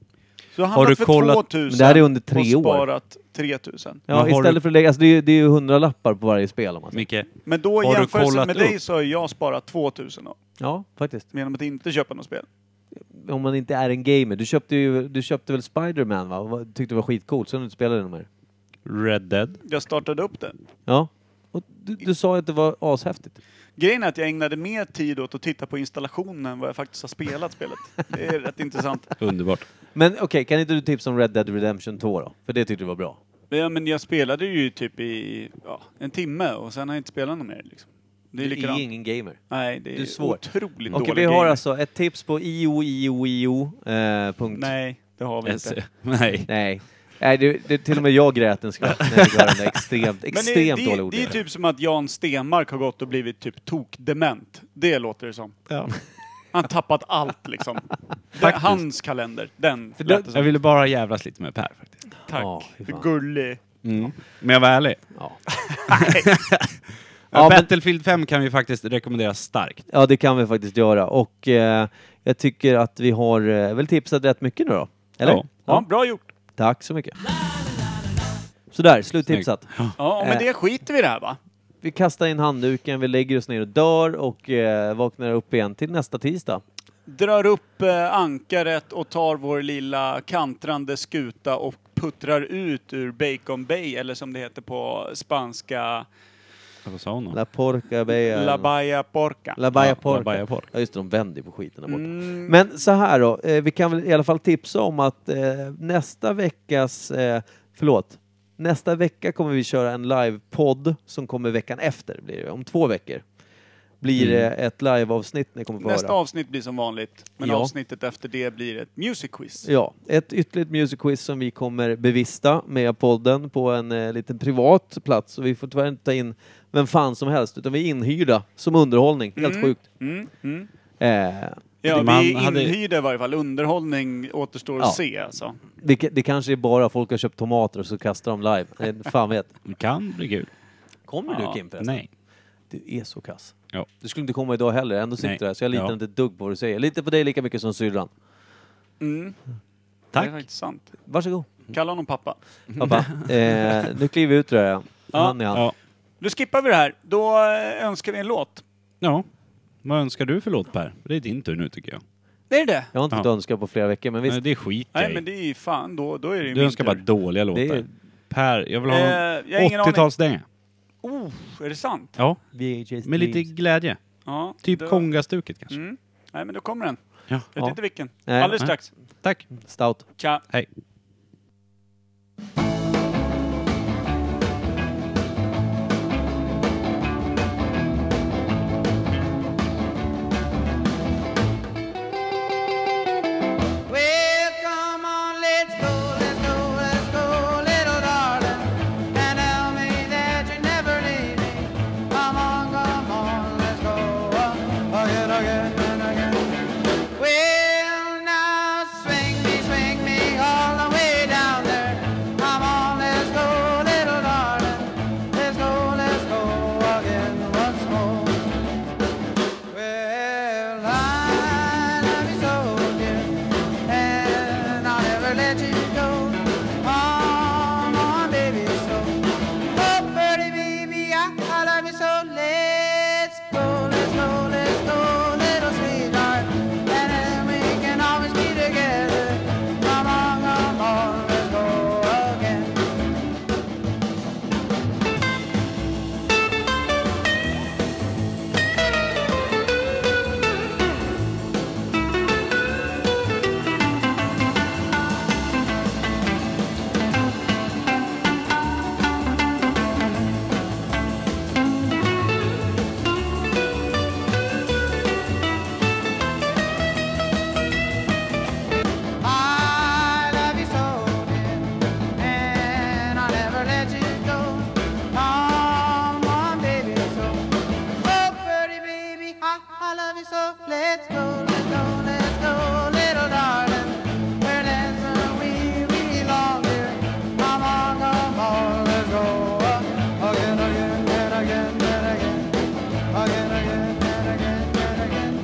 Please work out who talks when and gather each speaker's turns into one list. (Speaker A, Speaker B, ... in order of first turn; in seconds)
Speaker A: 0.5-4.0, 7.5-10.4, 11.3-12.5, 19.6-20.6, 23.8-29.1, 33.5-41.6, 44.5-45.8, 50.3-55.6, 56.5-60.5, 62.3-63.6, 65.7-66.3, 75.7-76.3, 80.0-81.4, 87.1-96.1, 98.1-99.6, 101.9-102.5, 115.8-119.7, 129.4-130.7, 131.8-135.6, 141.3-141.6, 149.0-149.4, 150.2-150.9, 151.7-152.4, 155.1-155.4, 156.2-158.6, 162.5-162.9, 164.9-167.0, 168.9-170.1, 171.0-172.2, 174.2-175.1, 175.7-178.9, 180.2-180.4
Speaker B: 0.7-1.4, 4.1-4.6, 6.9-8.8, 18.9-19.6, 29.2-29.7, 45.5-46.5, 55.7-55.9, 58.4-58.8, 60.3-62.0, 63.8-65.1, 65.9-66.8, 67.3-69.9, 75.2-75.5, 79.3-80.0, 96.8-97.4, 99.7-100.7, 114.2-114.5, 131.8-132.8, 139.7-140.5, 141.8-142.1, 145.2-145.9, 150.1-150.4, 152.7-153.3, 159.0-159.3, 159.8-162.0, 164.3-165.2, 166.5-170.4, 173.0-174.0, 174.6-175.8, 178.6-179.5
Speaker C: 1.7-2.9, 4.1-7.0, 10.6-11.3, 13.1-18.3, 20.9-23.4, 29.9-33.2, 38.4-44.7, 46.5-51.4, 60.0-60.3, 62.3-63.1, 67.3-67.7, 69.9-75.9, 76.5-77.2, 78.7-80.5, 81.8-86.6, 97.3-98.7, 99.6-113.2, 114.0-116.2, 117.4-117.7, 119.6-129.8, 131.0-131.6, 135.8-139.5, 141.1-142.0, 142.7-148.1, 151.1-151.5, 152.8-155.7, 162.9-164.4, 167.5-167.9, 172.5-173.5, 178.3-178.7, 179.6-180.1
Speaker D: 193.9-206.4, 207.2-218.4, 219.7-223.3, 223.9-229.2, 229.7-242.8, 269.2-292.4, 293.3-293.5, 294.1-294.9